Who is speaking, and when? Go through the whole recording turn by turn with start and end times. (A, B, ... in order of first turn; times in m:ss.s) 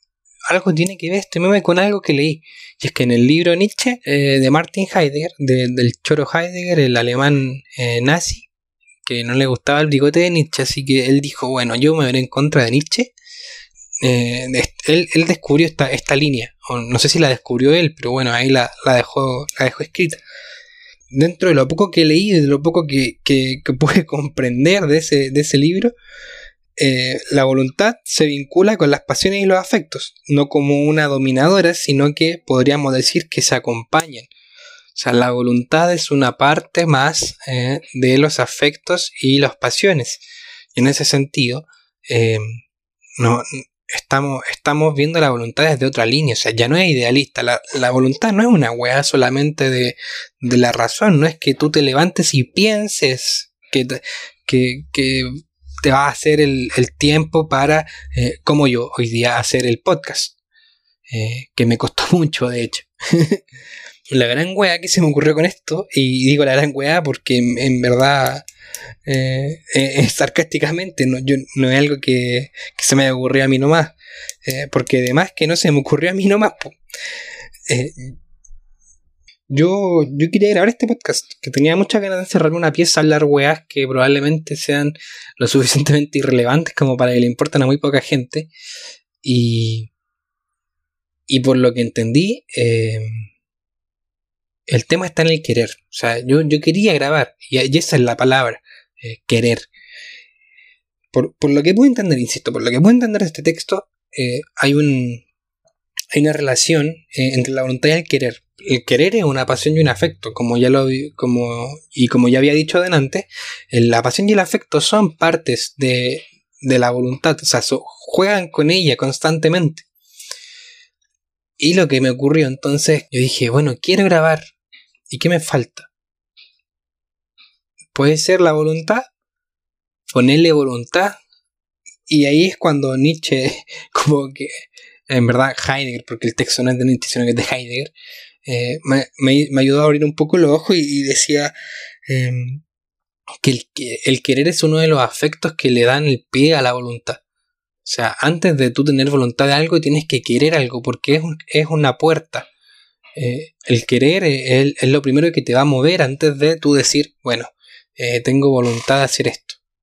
0:00.5-0:08.5 A
0:09.0-0:13.1 A
0:14.0-0:20.2 A
0:21.1-0:25.9 A
0:26.8-0:34.3 A
0:34.9-0:40.2 A
0:40.7-0:42.6 A
0:43.2-1:00.4 A
1:01.1-1:03.4 A
1:04.1-1:08.4 A
1:09.1-1:16.8 A
1:17.7-1:18.2 A
1:19.5-1:28.5 A
1:29.2-1:29.9 A
1:31.3-1:33.3 A
1:34.7-1:39.7 A
1:41.1-1:45.2 A
1:46.1-1:59.8 A
2:01.6-2:04.5 A
2:05.1-2:05.9 A
2:07.9-2:09.1 A
2:10.1-2:11.2 A
2:12.1-2:17.9 A
2:18.5-2:21.5 A
2:22.1-2:22.6 A
2:23.4-2:27.2 A
2:27.8-2:32.5 A
2:33.2-2:39.6 A